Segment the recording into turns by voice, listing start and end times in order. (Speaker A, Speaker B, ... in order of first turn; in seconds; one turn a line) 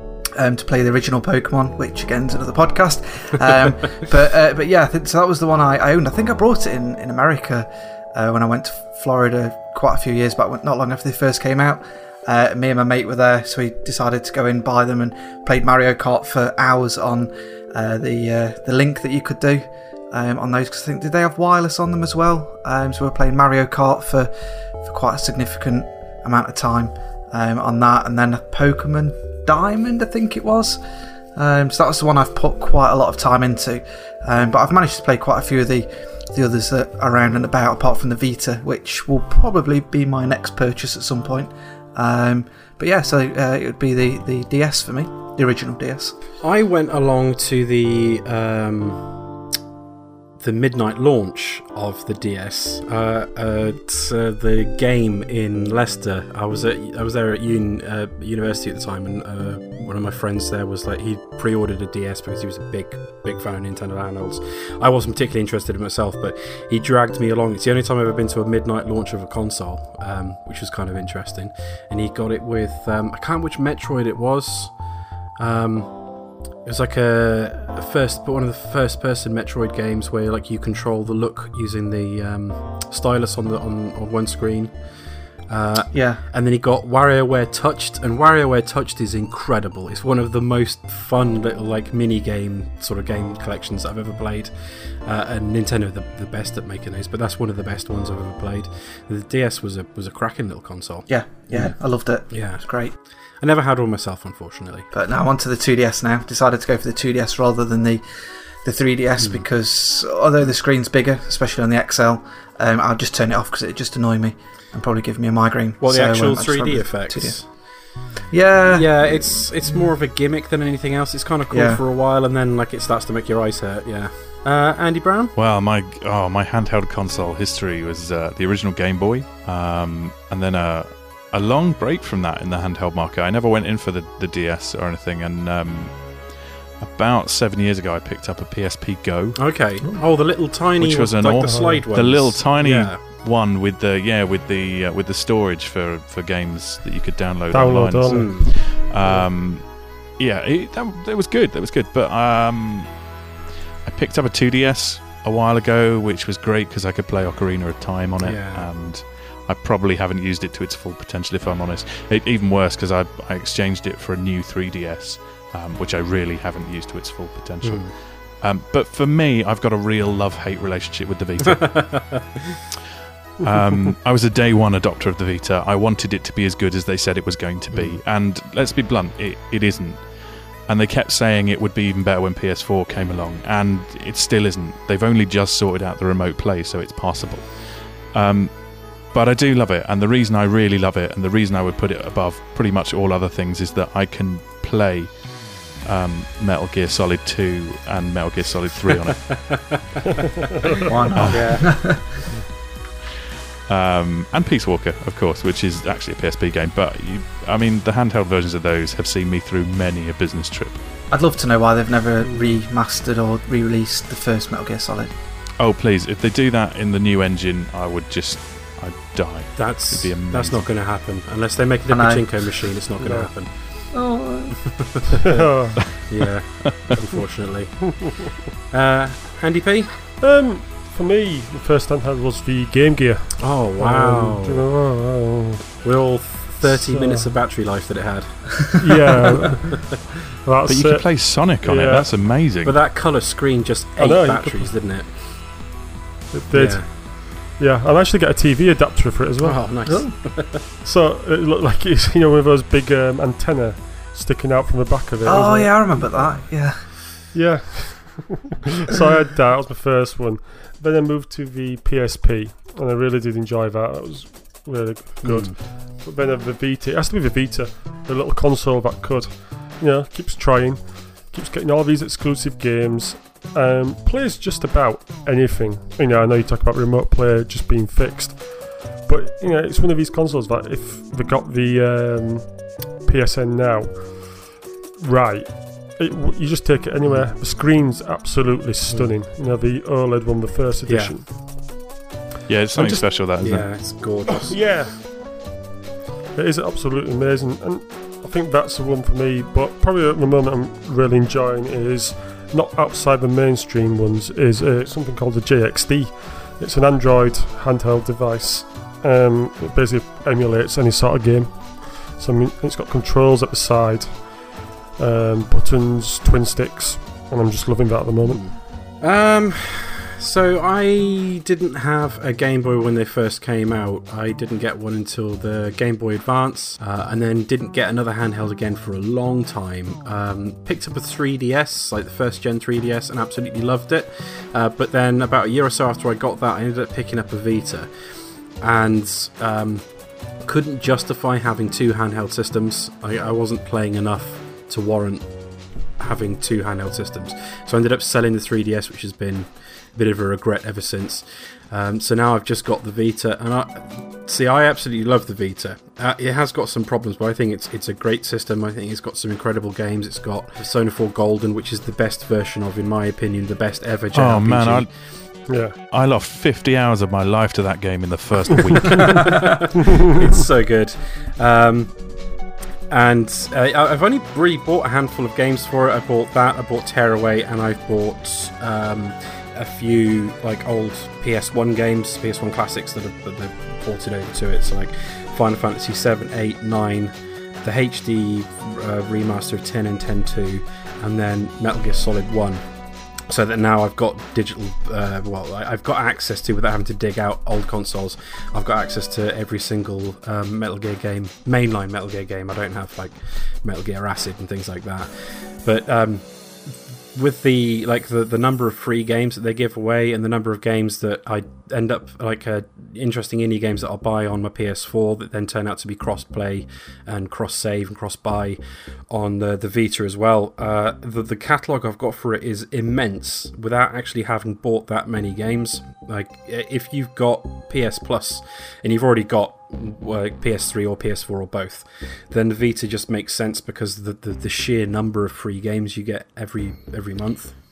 Speaker A: 0.3-30.8
Speaker A: 31.4-46.1
Speaker B: 46.4-49.1
Speaker B: 50.4-101.8
Speaker A: 85.9-86.2
Speaker A: 101.1-102.9
Speaker B: 102.3-104.9
Speaker A: 104.9-108.0
Speaker A: 108.6-119.3
Speaker B: 109.2-109.4
Speaker B: 115.8-117.5
Speaker B: 118.7-125.3
Speaker A: 121.5-121.8
Speaker C: 125.4-139.5
Speaker B: 139.4-143.0
Speaker C: 140.8-153.1
Speaker D: 141.5-141.8
Speaker D: 147.5-148.4
Speaker B: 148.1-149.2
Speaker C: 153.8-172.2
Speaker B: 158.2-158.7
Speaker B: 167.6-167.9
Speaker B: 171.5-172.4
Speaker C: 173.4-199.8
Speaker B: 177.7-178.0
Speaker A: 200.8-202.3
Speaker C: 201.1-201.8
Speaker B: 201.3-201.9
Speaker C: 203.7-210.8
Speaker A: 211.1-215.1
Speaker B: 212.3-212.6
Speaker C: 215.6-220.7
Speaker B: 219.6-223.9
Speaker A: 221.9-222.7
Speaker D: 223.0-223.3
Speaker A: 223.9-225.0
Speaker B: 224.8-230.0
Speaker D: 225.3-225.8
Speaker D: 230.2-235.7
Speaker B: 233.4-234.7
Speaker B: 235.8-238.8
Speaker D: 236.6-237.3
Speaker D: 238.8-242.1
Speaker C: 240.7-242.8
Speaker B: 242.6-245.2
Speaker D: 244.0-244.7
Speaker D: 246.3-256.3
Speaker B: 246.5-246.9
Speaker B: 249.4-250.6
Speaker A: 249.9-250.1
Speaker A: 255.2-257.0
Speaker D: 257.3-291.3
Speaker B: 265.2-265.6
Speaker B: 287.0-287.3
Speaker B: 288.9-289.1
Speaker B: 290.9-291.3
Speaker C: 292.5-293.8
Speaker B: 292.7-294.6
Speaker D: 294.4-295.6
Speaker D: 296.3-318.5
Speaker B: 318.2-364.9
Speaker C: 364.1-369.4
Speaker D: 365.5-365.7
Speaker B: 370.0-372.4
Speaker B: 372.9-392.7
Speaker B: 393.2-437.6